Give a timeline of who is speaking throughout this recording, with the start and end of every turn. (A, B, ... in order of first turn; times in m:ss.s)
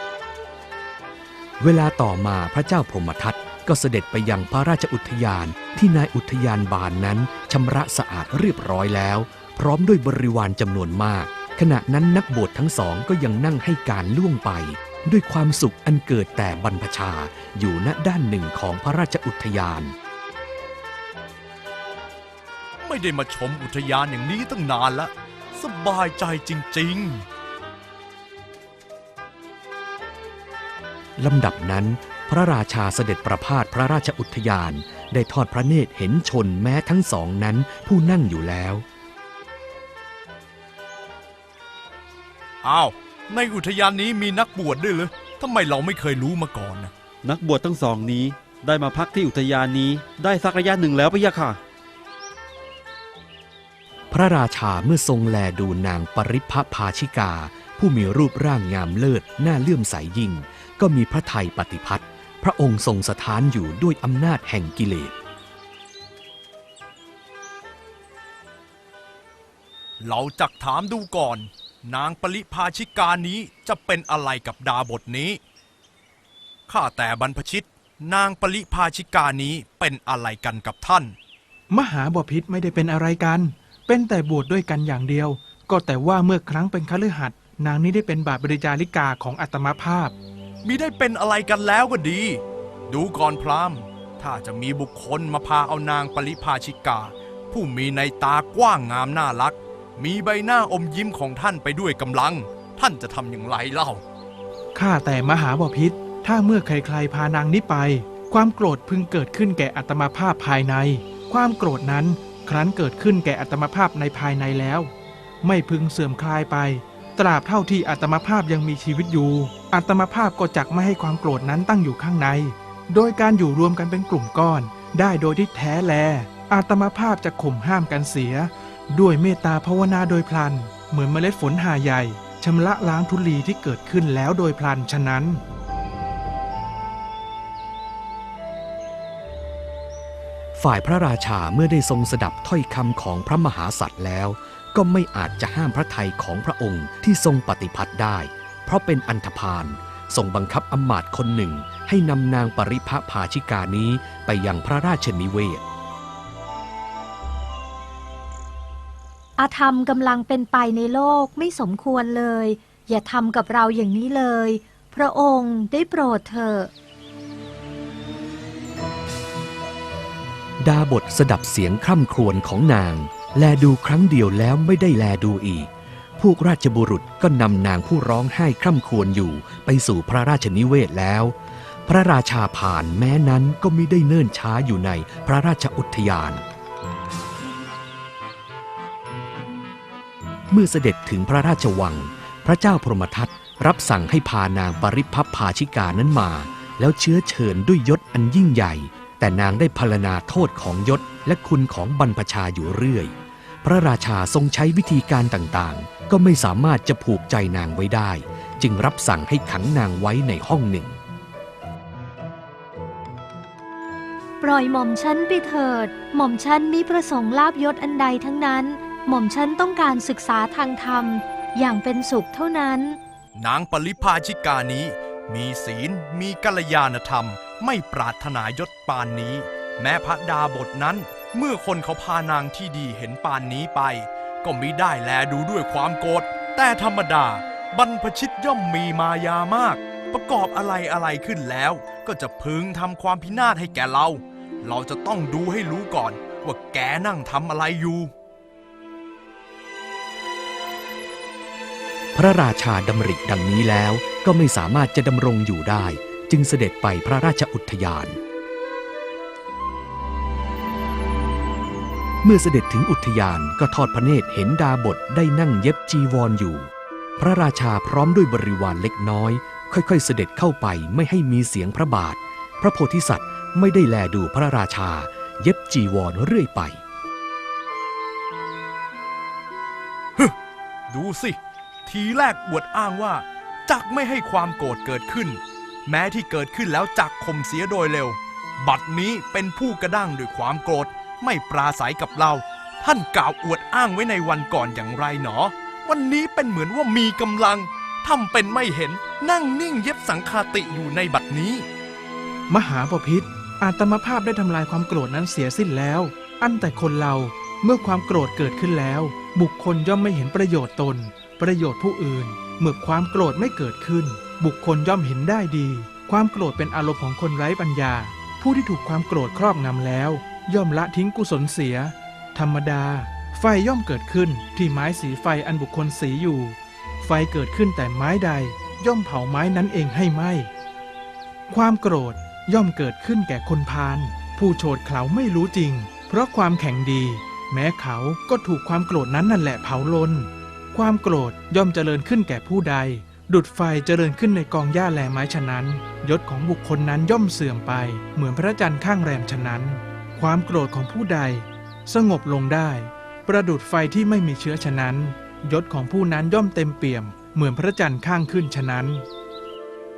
0:01.6-0:19.9 A
0:22.8-0:27.2 B
0:31.2-0:38.8 A
0:42.6-0:46.9 B
0:47.2-0:51.6 C
0:54.1-1:05.1 A
1:10.0-1:15.4 B
1:16.7-1:21.1 B
1:21.7-1:30.2 D
1:30.6-1:44.0 B
1:44.7-1:54.9 D
1:55.4-2:15.4 D
2:20.6-2:35.6 A
2:39.4-2:46.7 E
2:50.6-3:01.3 A
3:01.9-3:06.4 A
3:10.5-3:23.1 A
3:23.6-3:31.0 A
3:34.4-3:43.0 E
3:43.4-4:08.1 B
4:12.1-4:18.2 A
4:22.2-4:36.8 A
4:40.9-5:01.6 B
5:02.5-5:30.5 D
5:31.5-5:59.0 D